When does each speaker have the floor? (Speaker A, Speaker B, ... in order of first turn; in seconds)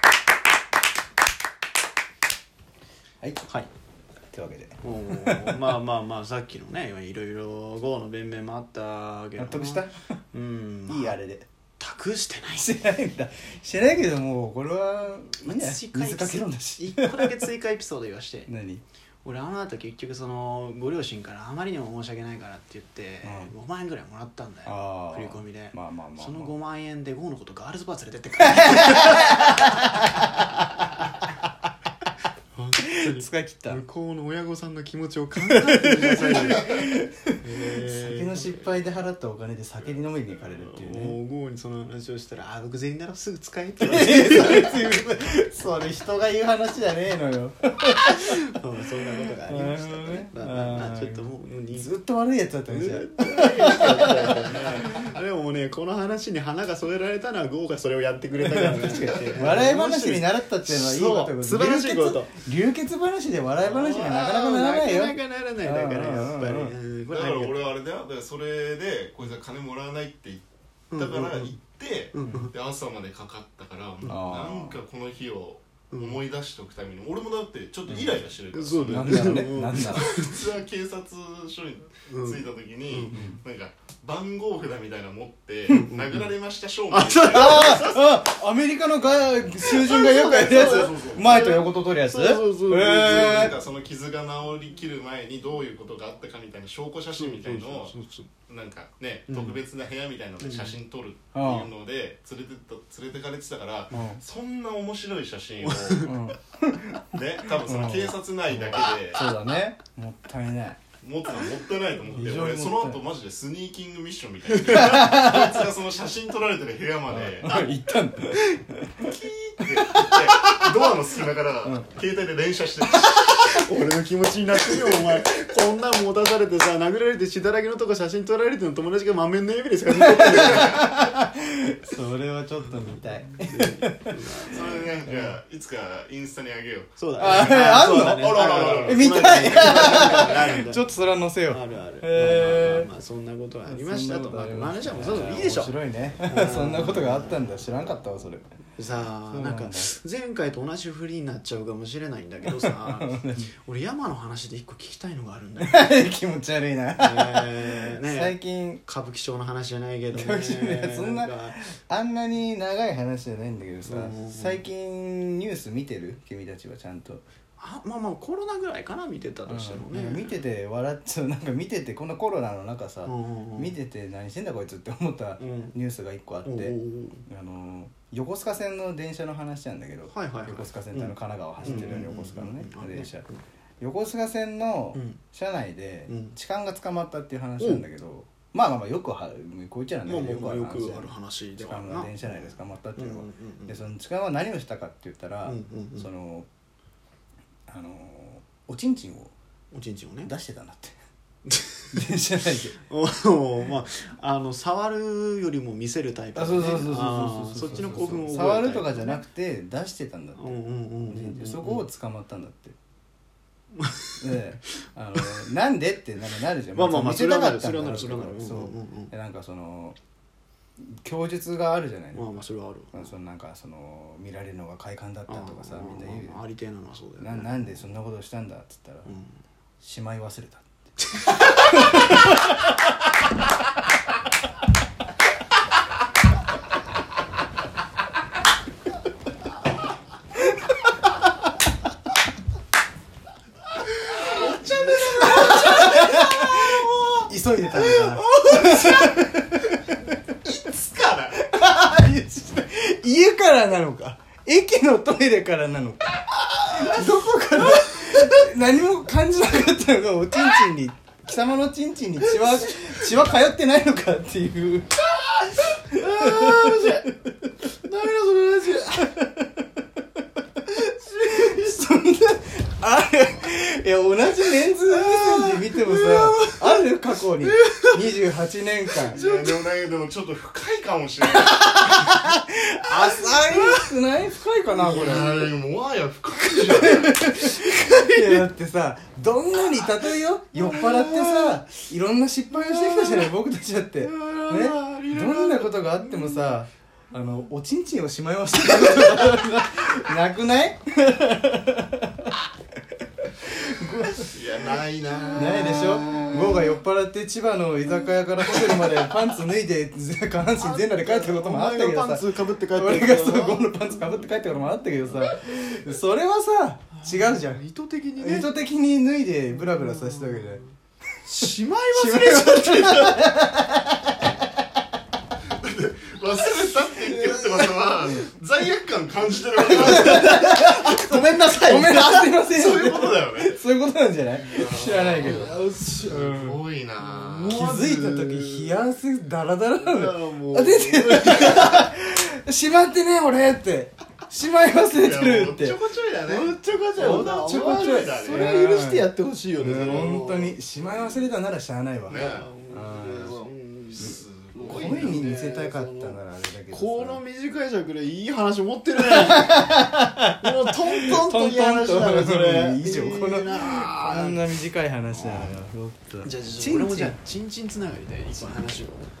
Speaker A: 3.4-3.7, 4.8-11.2, 11.8-12.8, 15.4-18.5, 19.2-31.1, 32.5-38.7, 40.5-45.0, 48.1-52.0, 52.7-62.3, 63.7-67.7, 70.9-71.5, 72.1-72.5, 75.9-76.2, 77.9-80.4, 82.1-83.2, 85.7-86.3, 86.9-88.0, 89.6-93.5, 97.2-98.3, 99.3-99.6, 100.4-100.8, 105.7-106.1, 123.5-131.0, 133.4-134.9, 137.0-140.9, 141.4-147.4, 148.8-155.9, 156.9-161.6, 163.8-164.6, 167.6-170.3, 173.0-173.7, 175.4-175.8, 176.4-177.2, 180.1-183.4, 184.9-185.2, 186.1-186.4, 187.6-187.8, 190.0-193.8, 195.4-196.1, 199.7-200.3, 201.5-202.0, 202.8-209.2, 210.3-211.8, 213.7-214.2, 216.7-219.1, 222.1-223.1, 225.3-227.8, 229.1-229.4, 244.4-246.8, 247.8-249.2, 258.1-258.4, 265.2-267.1, 267.7-269.2, 271.0-271.8, 274.9-276.8, 277.4-278.1, 279.1-279.6, 282.9-283.9, 284.8-285.3, 286.8-288.4, 290.5-291.6, 292.5-293.3, 294.0-296.6, 305.1-306.4, 310.6-314.4, 316.9-318.5, 319.6-320.5, 321.2-323.3, 329.6-332.5, 335.2-336.4, 337.0-338.8, 339.8-341.9, 346.2-350.6, 352.1-356.2, 356.7-364.6, 365.1-365.6, 366.2-369.0
Speaker B: 4.3-5.7, 9.4-9.9, 10.9-11.4, 12.5-17.4, 18.5-18.8, 23.2-23.5, 24.6-26.5, 28.5-30.4, 32.8-33.8, 35.5-41.2, 43.8-48.3, 49.2-55.0, 58.4-66.7, 74.1-74.8, 78.9-80.0, 83.1-83.4, 87.2-93.6, 101.3-101.7, 103.9-104.2, 106.0-107.0, 107.6-110.8, 112.1-113.0, 114.7-115.6, 117.1-119.1, 119.7-120.6, 130.0-135.4, 137.2-142.9, 143.7-148.4, 149.3-149.9, 152.4-153.5, 155.6-158.8, 160.1-167.2, 169.4-183.3, 183.8-196.5, 197.7-199.3, 200.2-201.0, 201.9-202.8, 206.3-210.6, 211.1-212.8, 214.2-220.0, 220.8-226.4, 227.2-229.1, 229.8-230.9, 231.4-232.3, 245.3-250.2, 251.4-256.0, 256.6-264.9, 266.2-267.0, 269.0-269.6, 271.2-279.2, 281.7-285.5, 286.6-302.4, 303.4-304.3, 305.3-317.6, 318.2-320.6, 321.4-324.4, 327.1-328.3, 329.6-336.6, 337.5-345.8, 347.0-353.4, 354.6-357.2, 359.0-367.2
Speaker C: 67.1-87.9, 90.3-91.3, 92.7-97.9, 98.5-106.1, 107.1-109.3, 111.0-117.7, 119.0-123.7, 134.4-139.1, 244.0-247.3, 250.4-251.5, 279.1-281.9, 284.8-287.2, 304.3-306.8, 325.5-330.4, 332.5-333.6, 334.4-337.7, 344.9-348.6, 349.6-350.2, 352.1-352.5, 353.9-355.3